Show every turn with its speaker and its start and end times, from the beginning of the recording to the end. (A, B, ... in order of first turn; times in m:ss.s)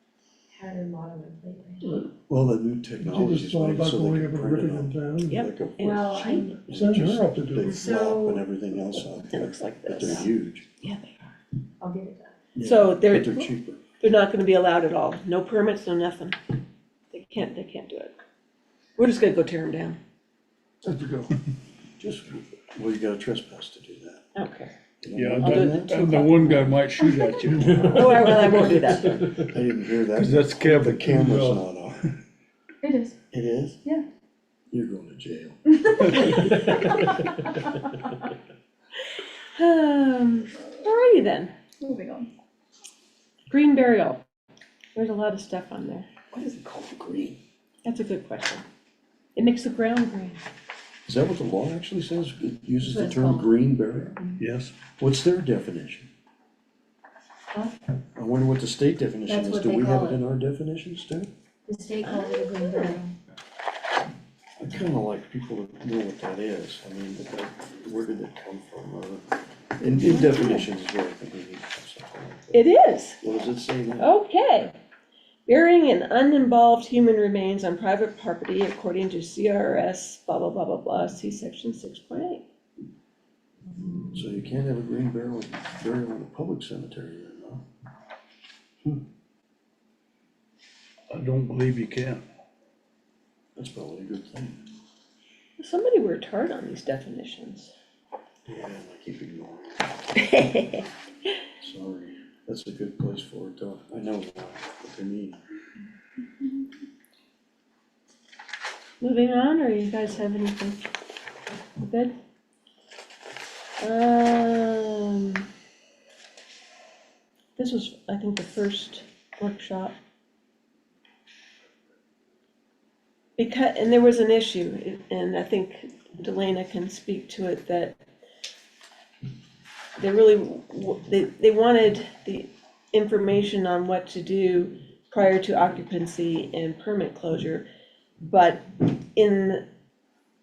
0:00.5-0:01.8 A
0:02.1-0:10.7 B
0:03.0-0:05.4 C
0:05.3-0:06.5 D
0:05.8-0:06.6 A
0:06.5-0:07.8 C
0:07.7-0:08.4 A
0:09.3-0:11.3 D
0:11.8-0:12.3 A
0:12.5-0:13.8 B
0:12.6-0:16.4 D
0:17.1-0:18.2 D
0:19.0-0:20.0 D
0:20.8-0:21.3 C
0:22.0-0:24.2 B
0:24.3-0:24.7 D
0:25.0-0:26.7 B
0:25.1-0:28.7 E
0:25.4-0:26.6 D
0:27.7-0:32.0 B
0:27.9-0:29.3 D
0:30.1-0:31.7 E
0:32.8-0:33.2 A
0:33.3-0:33.8 B
0:34.7-0:35.6 B
0:35.8-0:37.8 A
0:36.1-0:36.6 E
0:39.5-0:41.5 D
0:41.8-0:42.3 A
0:43.5-0:44.2 D
0:44.9-0:46.1 D
0:46.3-0:47.4 B
0:47.8-0:48.6 D
0:49.4-0:50.4 D
0:51.0-0:54.2 B
0:52.8-0:53.5 A
0:54.4-0:54.7 E
0:54.9-0:56.1 B
0:57.5-0:57.8 A
0:58.1-1:01.3 B
0:59.3-1:00.2 A
1:01.7-1:03.1 A
1:02.0-1:02.9 D
1:04.6-1:12.6 B
1:10.2-1:10.5 D
1:12.5-1:13.2 D
1:13.2-1:14.1 B
1:14.0-1:14.7 D
1:15.4-1:22.4 D
1:24.1-1:27.6 B
1:31.1-1:32.2 E
1:33.6-1:34.6 B
1:35.6-1:37.7 D
1:38.5-1:40.6 B
1:41.6-1:45.4 B
1:49.0-1:50.9 D
1:51.8-1:52.2 D
1:53.8-1:55.4 D
1:57.6-1:59.9 D
2:03.4-2:08.0 D
2:10.0-2:17.6 D
2:18.2-2:19.6 D